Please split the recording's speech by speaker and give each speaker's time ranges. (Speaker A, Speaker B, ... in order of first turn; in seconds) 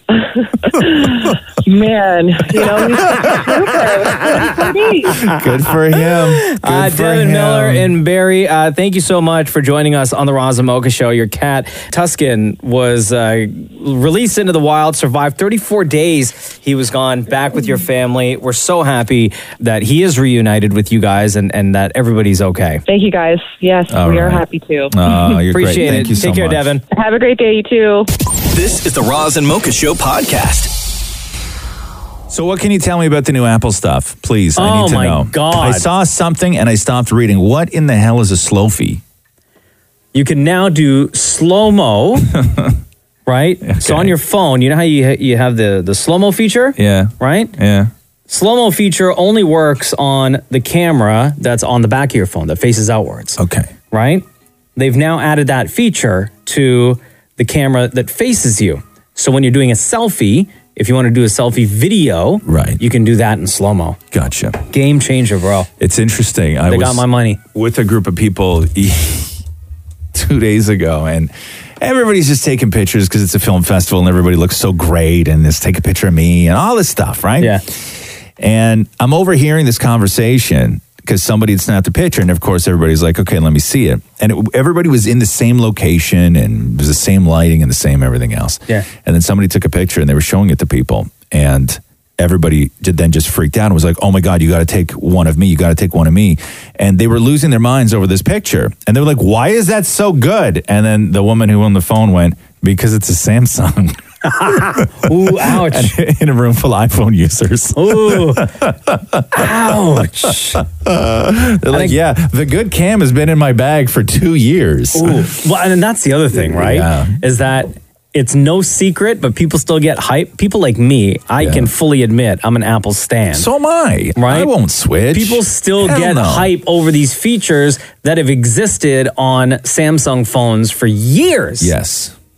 Speaker A: 0.1-5.2, 22.9-24.9, 26.9-28.1
Speaker B: 2.6-3.5, 5.2-7.9, 23.9-26.7, 32.3-39.0, 42.3-42.8, 43.6-44.2, 46.8-47.9, 53.4-53.7, 62.4-62.8, 64.1-64.6, 65.8-69.4, 70.1-104.0, 105.3-110.1, 110.6-115.3, 116.3-117.2, 121.4-121.7, 123.3-126.5, 131.6-132.2
Speaker C: 5.9-22.8, 25.1-26.8, 34.6-35.9, 40.1-42.3, 43.3-47.5, 48.3-53.4, 53.9-54.2, 54.8-64.0, 64.7-65.7, 66.7-67.4, 104.2-105.9, 107.8-108.5, 109.3-110.6, 111.7-112.0, 114.9-123.5, 124.2-124.5, 125.1-131.7
Speaker D: 28.5-30.7